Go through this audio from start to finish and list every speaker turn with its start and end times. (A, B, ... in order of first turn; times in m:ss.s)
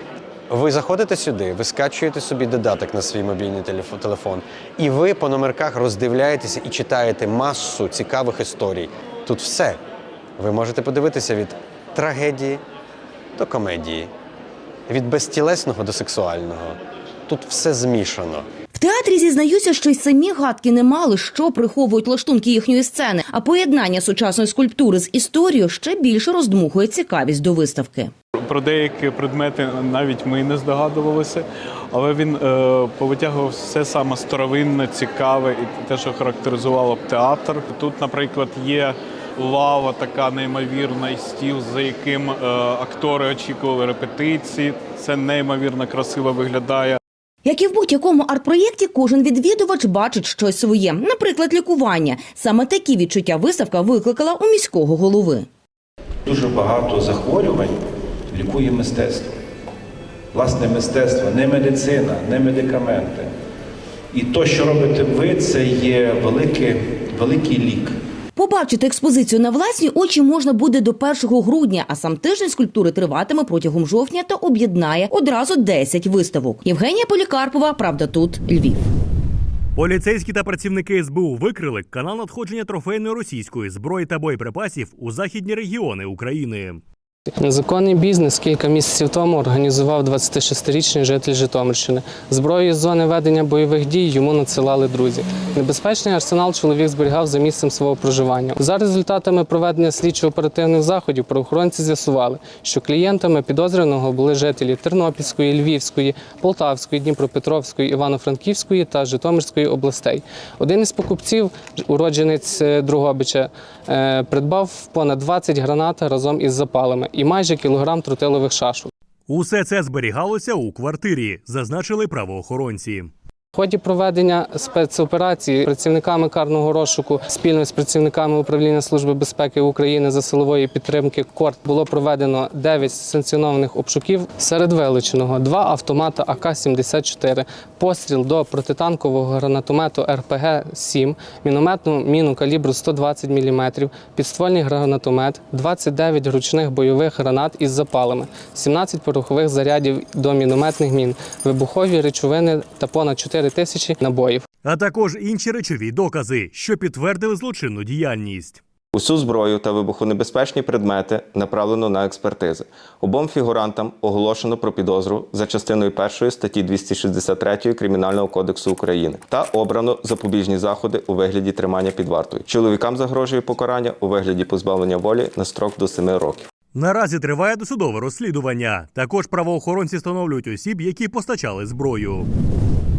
0:00.5-0:09.8 A
0:10.4-0:12.6 A
0:13.4-0:14.1 A
0:14.9-0:16.8 A
0:17.3-0:18.4 A
0:18.7-0:28.1 B
0:28.4-0:47.0 C
0:47.4-0:55.5 B
0:56.3-0:57.8 D
0:58.3-0:59.4 D
1:00.3-1:03.3 D
1:04.1-1:08.0 D
1:08.4-1:18.8 B
1:19.8-1:26.8 E
1:27.4-1:58.9 F
1:59.3-2:03.1 E
2:03.6-2:34.4 F
2:34.6-2:38.6 E
2:38.9-2:56.5 G
2:56.8-3:02.3 E